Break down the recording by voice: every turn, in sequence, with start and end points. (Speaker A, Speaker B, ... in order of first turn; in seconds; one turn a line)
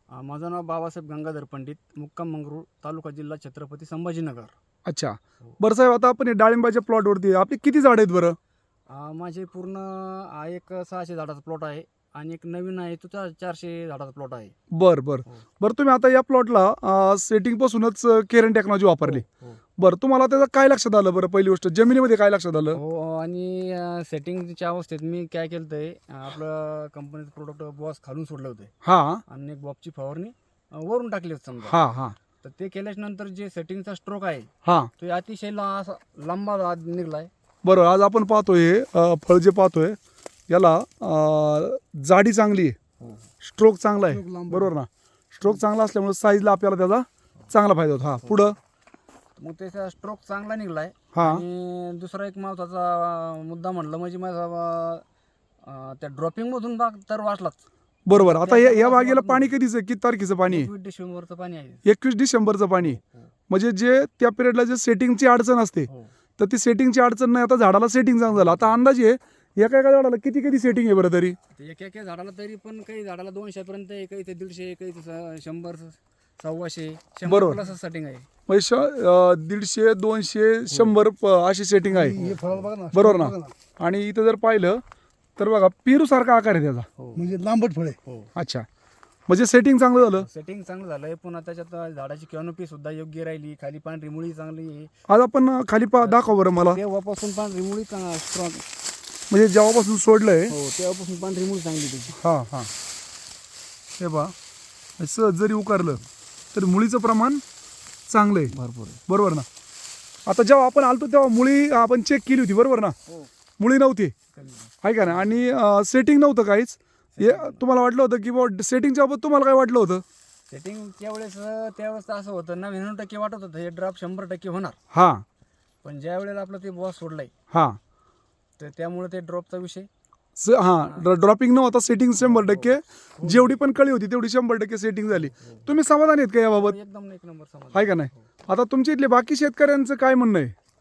Speaker A: 0.1-4.5
Speaker B: 4.8-8.4
Speaker A: 8.9-14.5
Speaker B: 14.7-19.2
Speaker A: 19.0-19.6
Speaker B: 19.8-22.8
Speaker A: 22.7-28.7
Speaker B: 28.8-29.2
Speaker A: 29.3-31.8
Speaker B: 31.6-32.1
Speaker A: 32.4-37.3
Speaker B: 34.6-34.9
Speaker B: 37.6-40.0
Speaker B: 40.5-42.8
Speaker B: 43.4-48.6
Speaker C: 44.3-44.5
Speaker A: 49.4-55.0
Speaker B: 51.1-51.4
Speaker A: 55.6-59.5
Speaker B: 58.1-60.7
Speaker A: 60.5-61.8
Speaker B: 61.8-71.4
Speaker A: 62.8-63.2
Speaker A: 68.3-68.7
Speaker A: 71.5-78.3
Speaker B: 77.2-77.6
Speaker B: 78.5-82.2
Speaker A: 82.0-82.7
Speaker C: 82.0-83.5
Speaker B: 82.9-84.8
Speaker B: 85.4-86.9
Speaker A: 87.0-87.3
Speaker C: 87.1-88.0
Speaker A: 88.0-88.3
Speaker B: 88.3-88.6
Speaker B: 89.3-90.3
Speaker A: 90.1-94.9
Speaker B: 95.1-96.8
Speaker A: 96.0-98.6
Speaker B: 99.3-100.5
Speaker A: 100.5-102.2
Speaker B: 102.2-102.7
Speaker B: 104.0-104.3
Speaker B: 105.0-106.0
Speaker B: 106.5-107.4
Speaker B: 108.1-108.5
Speaker A: 108.5-109.0
Speaker B: 109.1-109.5
Speaker B: 110.3-113.0
Speaker B: 113.6-114.1
Speaker A: 114.3-115.4
Speaker B: 114.8-120.0
Speaker A: 117.2-117.6
Speaker A: 120.5-124.8
Speaker B: 124.9-125.2
Speaker A: 125.8-127.3
Speaker B: 127.5-127.8
Speaker A: 128.6-129.9
Speaker B: 130.4-136.8
Speaker A: 132.2-133.6
Speaker A: 135.4-135.7
Speaker A: 136.5-138.2
Speaker B: 137.7-140.5